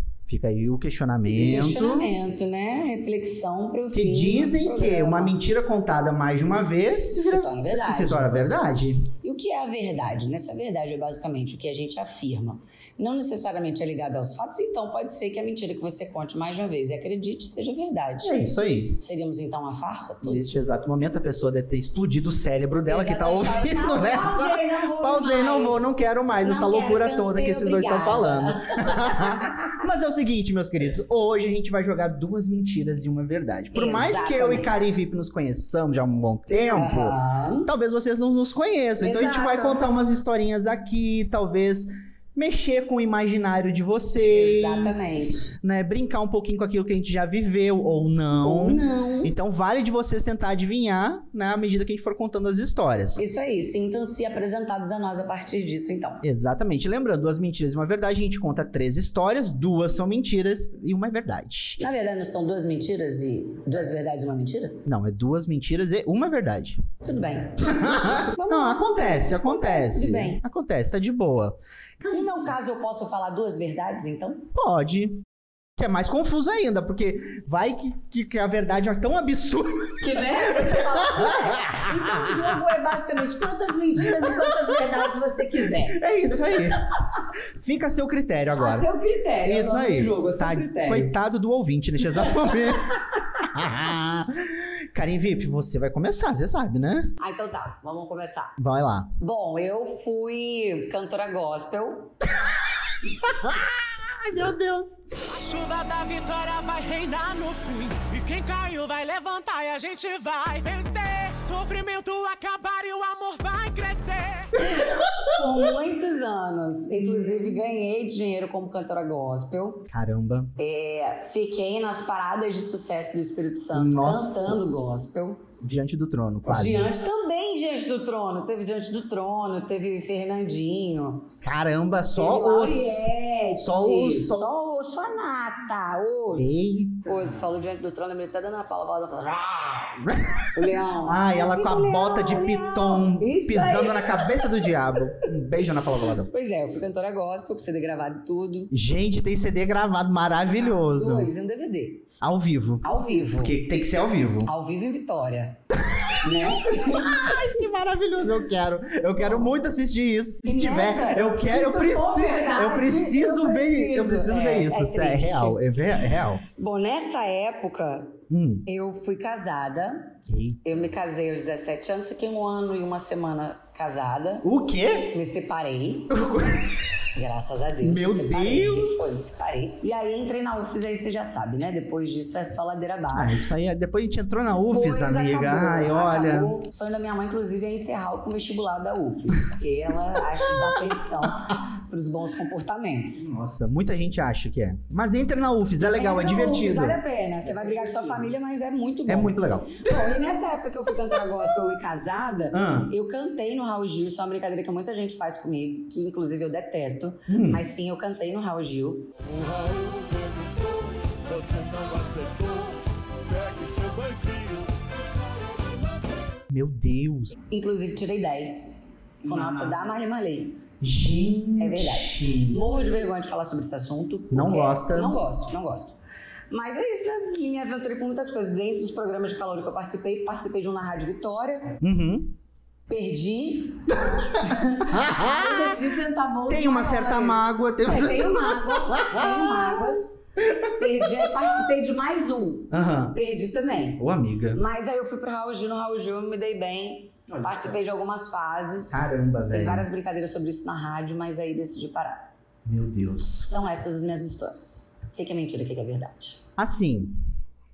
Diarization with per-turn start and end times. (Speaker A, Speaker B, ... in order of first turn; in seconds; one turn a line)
Speaker A: 0.3-2.1
Speaker B: 1.3-5.4
Speaker A: 3.9-9.1
Speaker B: 7.2-8.5
Speaker B: 9.2-20.6
Speaker A: 18.2-19.0
Speaker A: 20.2-53.2
Speaker B: 22.9-29.8
Speaker B: 33.7-35.0
Speaker B: 36.5-37.7
Speaker B: 39.0-39.8
Speaker B: 44.2-45.5
Speaker B: 48.4-49.3
Speaker B: 53.2-56.2
Speaker A: 56.2-61.8
Speaker B: 61.8-64.8
Speaker A: 64.9-66.8
Speaker B: 67.0-70.4
Speaker A: 67.6-72.5
Speaker B: 72.1-74.5
Speaker A: 74.5-75.2
Speaker A: 75.8-82.6
Speaker B: 80.0-86.0
Speaker A: 84.0-84.8
Speaker A: 85.9-86.9
Speaker A: 87.6-88.9
Speaker B: 88.6-91.1
Speaker A: 89.4-97.2
Speaker B: 97.2-98.6
Speaker A: 98.6-99.1
Speaker B: 99.2-102.1
Speaker A: 102.4-105.0
Speaker C: 105.3-114.5
Speaker B: 114.6-119.9
Speaker A: 119.9-120.5
Speaker B: 120.6-125.5
Speaker A: 123.7-124.6
Speaker A: 125.6-126.9
Speaker B: 126.5-131.3
Speaker A: 131.4-134.5
Speaker B: 132.2-136.5
Speaker A: 136.3-137.4
Speaker B: 137.1-145.3
Speaker A: 140.0-146.3
Speaker B: 146.0-148.7
Speaker A: 148.7-151.3
Speaker B: 150.7-152.1
Speaker A: 152.2-154.5
Speaker B: 152.8-153.6
Speaker B: 154.4-155.6
Speaker A: 155.9-166.4
Speaker B: 156.2-157.4
Speaker B: 159.2-159.5
Speaker B: 160.4-165.6
Speaker B: 166.5-174.5
Speaker A: 168.3-168.7
Speaker A: 170.3-170.8
Speaker A: 174.4-175.1
Speaker B: 175.1-176.2
Speaker A: 176.1-176.8
Speaker B: 177.1-183.5
Speaker A: 177.8-179.0
Speaker A: 183.1-186.6
Speaker B: 184.7-193.3
Speaker A: 190.4-191.6
Speaker A: 193.2-197.0
Speaker B: 195.8-209.1
Speaker A: 199.1-200.1
Speaker A: 202.5-202.9
Speaker A: 207.3-207.7
Speaker D: 209.2-216.1
Speaker A: 216.5-217.4
Speaker B: 217.5-220.6
Speaker A: 219.2-219.8
Speaker A: 220.8-222.7
Speaker B: 221.6-226.0
Speaker A: 224.3-225.2
Speaker B: 226.5-231.8
Speaker A: 231.8-232.4
Speaker B: 232.9-240.2
Speaker A: 233.9-235.8
Speaker A: 236.5-241.4
Speaker B: 240.8-244.0
Speaker A: 242.7-243.2
Speaker A: 244.0-244.6
Speaker B: 244.5-252.3
Speaker A: 247.3-247.8
Speaker A: 248.9-249.9
Speaker A: 252.7-253.5
Speaker B: 253.4-256.4
Speaker A: 256.6-257.2